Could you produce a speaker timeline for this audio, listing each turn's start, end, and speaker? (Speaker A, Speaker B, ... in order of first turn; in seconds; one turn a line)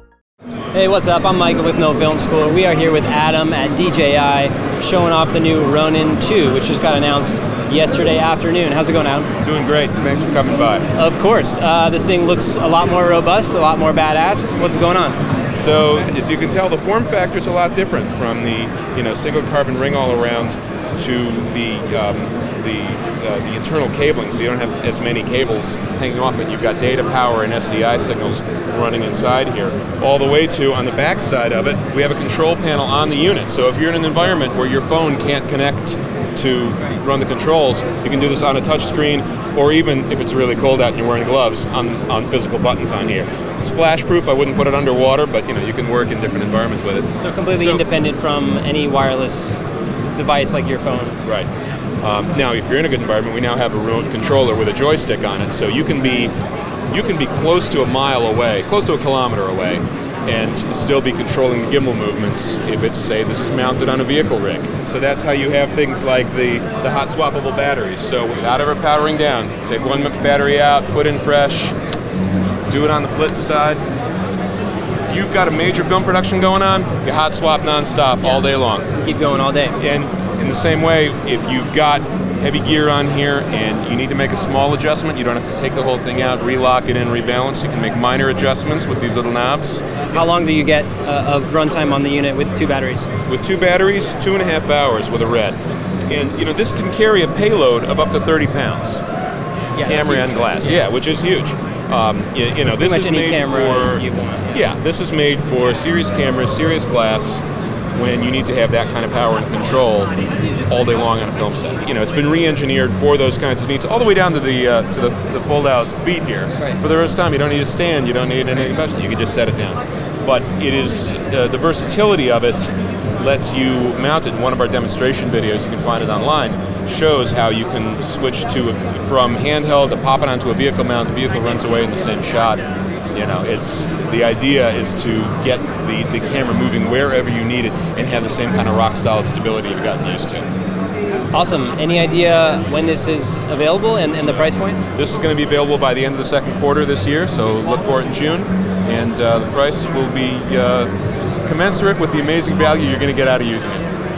Speaker A: 0.7-9.3
Speaker B: 9.4-10.9
Speaker A: 10.9-15.2
Speaker B: 15.5-47.8
Speaker A: 47.2-51.2
Speaker B: 51.2-51.5
Speaker B: 52.0-56.3
Speaker B: 56.9-71.7
Speaker B: 72.7-73.8
Speaker B: 75.1-78.9
Speaker A: 79.0-79.8
Speaker B: 79.8-89.9
Speaker A: 90.1-93.1
Speaker B: 93.2-99.0
Speaker A: 99.7-100.5
Speaker B: 99.8-107.4
Speaker A: 102.8-104.5
Speaker B: 107.9-110.1
Speaker B: 110.7-140.5
Speaker A: 141.3-144.8
Speaker B: 144.9-150.9
Speaker B: 151.4-153.9